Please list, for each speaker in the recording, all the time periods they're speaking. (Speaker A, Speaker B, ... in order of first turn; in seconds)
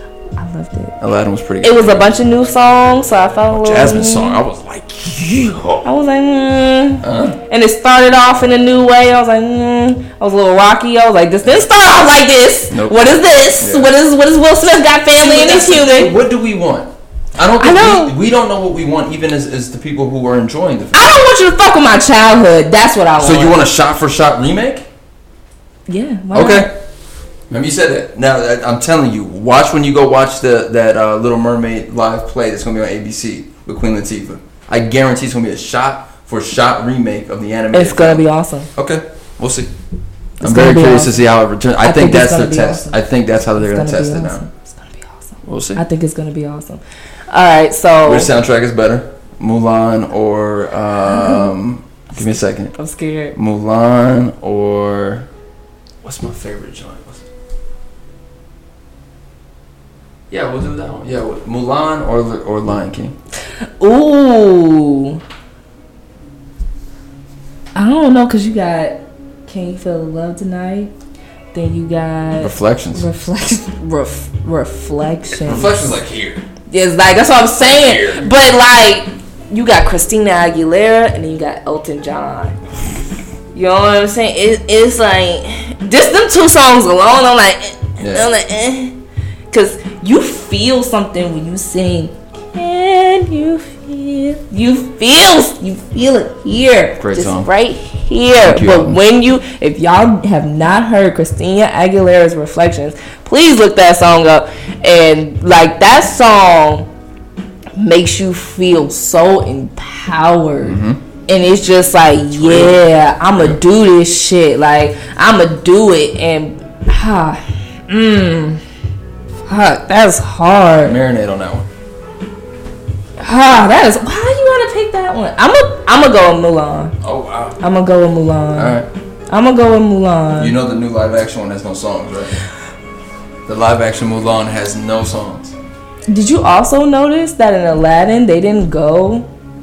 Speaker A: 0.4-0.9, 1.6-4.4, 5.8-16.1, 17.6-18.1, 20.9-23.6, 25.9-26.7, 37.7-38.7, 40.4-41.2, 41.8-43.0, 43.5-48.3, 51.1-51.5, 52.1-53.3, 63.8-65.2, 67.7-70.9, 71.5-75.8, 76.7-82.6, 83.5-88.9, 89.5-106.9, 107.8-118.6, 119.5-121.0, 123.2-126.9, 127.6-128.8, 129.3-130.5, 136.1-139.3
Speaker B: 1.0-2.1, 3.5-5.8, 7.0-7.4, 12.7-13.9, 15.1-21.2, 23.2-24.9, 26.3-26.7, 27.5-38.2, 38.7-39.7, 40.4-44.4, 45.4-45.8, 48.0-52.7, 53.3-55.3, 56.0-57.3, 60.3-63.1, 72.4-73.1, 75.4-76.4, 77.5-78.3, 88.0-88.3, 97.0-97.5, 98.4-99.0, 110.6-111.0, 112.3-113.6, 120.8-121.7, 127.0-127.6, 128.5-128.9, 130.4-132.4, 133.4-135.5